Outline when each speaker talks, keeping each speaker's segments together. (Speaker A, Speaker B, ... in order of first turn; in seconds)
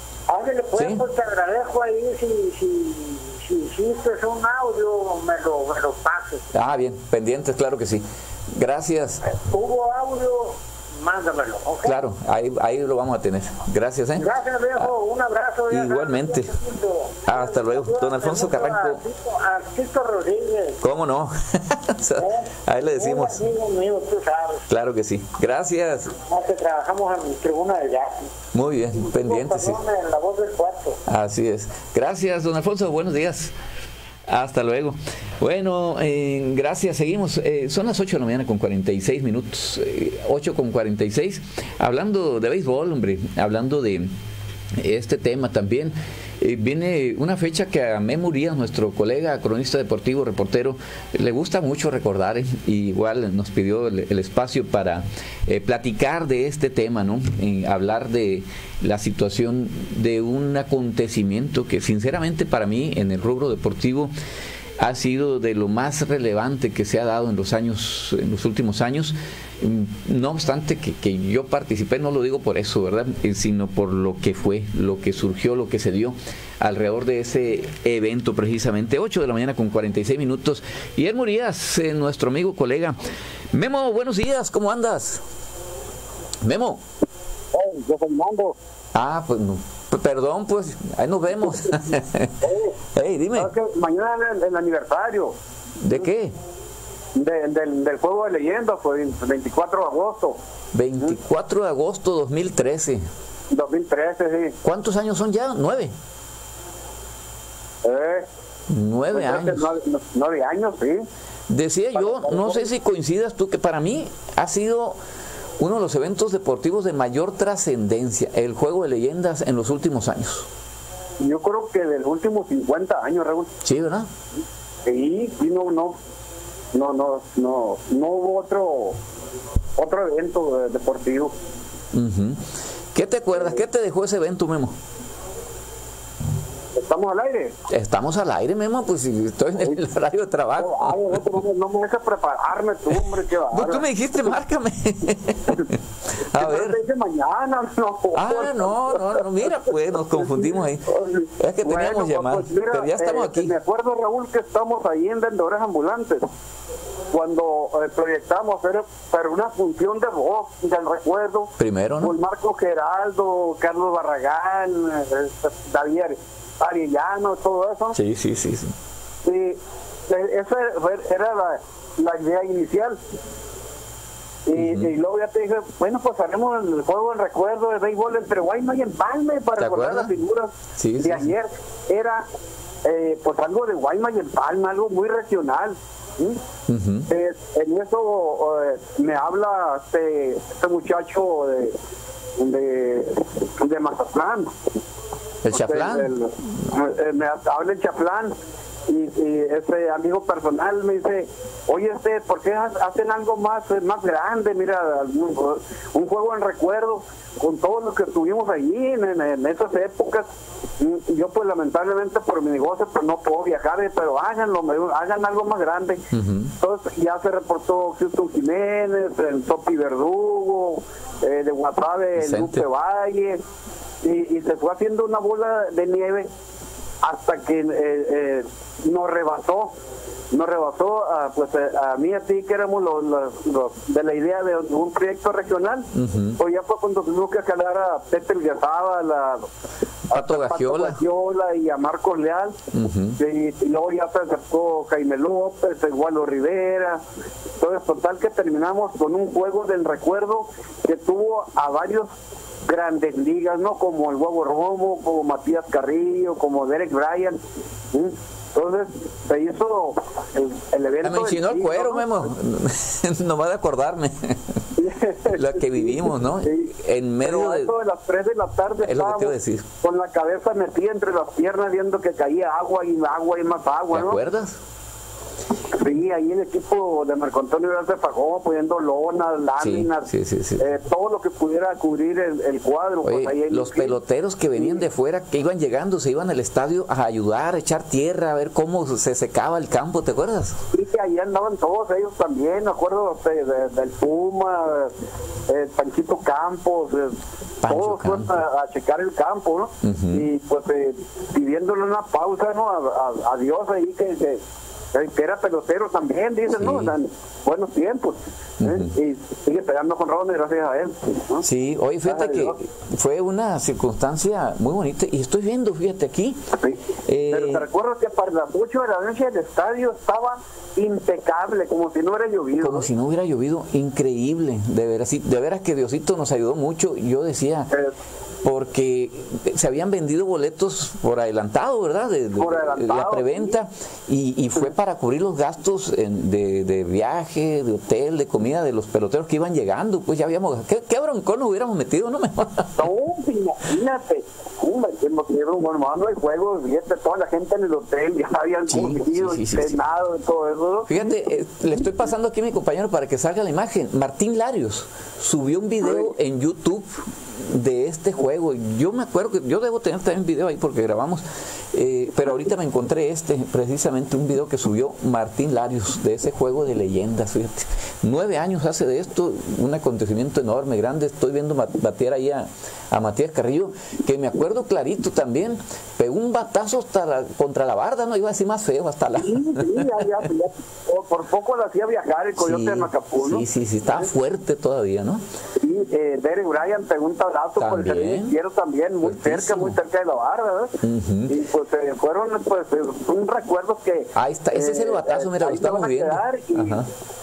Speaker A: 0.3-6.5, 9.2-12.0, 14.2-20.8, 22.2-24.7, 26.3-28.3, 29.0-31.0
Speaker B: 0.7-1.0, 6.5-9.2, 11.8-14.9, 15.7-16.6, 17.2-19.0, 20.8-23.4, 24.7-26.1, 28.5-29.8, 31.1-33.5, 34.3-44.1, 44.8-64.1, 64.8-83.0, 83.5-85.2, 86.4-86.8, 88.9-92.3, 92.9-93.5, 95.8-96.3, 100.7-103.0, 104.6-105.9, 108.7-109.7, 111.5-115.0, 115.6-120.5, 123.6-124.1, 131.9-132.4, 132.9-134.8, 137.7-141.2, 142.9-145.7, 146.3-146.8, 148.1-150.8, 151.4-153.5, 161.6-162.2, 167.9-168.7, 174.5-174.9, 179.6-180.1, 180.8-181.3, 186.7-187.1, 195.4-196.1, 216.1-216.5, 222.2-222.7, 235.9-236.4, 240.1-241.0, 242.7-243.2, 261.0-264.4, 265.4-267.7, 268.8-269.6, 273.9-274.6, 279.6-280.6, 283.0-290.6, 297.6-298.4, 299.8-300.3, 306.5-306.9, 308.6-308.9, 311.4-316.4, 317.1-317.6, 322.6-327.7, 328.4-342.9, 348.7-349.8, 350.9-380.0, 382.4-385.2, 387.6-388.3, 389.0-389.8, 390.8-391.4, 394.1-396.9
Speaker C: 87.5-88.5, 91.4-91.8, 92.4-92.7, 93.3-95.3, 97.2-100.4, 103.5-104.5, 107.8-108.2, 109.1-111.0, 112.0-112.7, 121.2-123.5, 124.8-125.9, 126.7-128.9, 129.8-131.3, 133.3-133.6, 136.8-137.5, 140.6-143.8, 146.3-149.0, 150.1-156.2, 157.1-167.9, 169.2-173.0, 174.5-182.2, 182.8-186.4, 187.1-191.7, 192.4-194.5, 195.5-198.3, 198.9-210.2, 210.8-216.0, 216.6-223.4, 224.0-226.3, 227.0-229.7, 230.3-235.8, 236.4-239.5, 240.1-242.6, 243.2-247.0, 247.6-252.1, 252.7-257.4, 257.9-262.2, 264.8-266.6, 267.2-274.2, 275.7-280.0, 280.6-283.9, 290.7-294.9, 295.5-297.1, 297.7-304.4, 304.9-311.4, 312.0-312.5, 317.3-322.9, 332.4-333.6, 342.8-351.1, 355.8-356.1, 379.1-383.4, 385.6-390.7, 391.3-396.7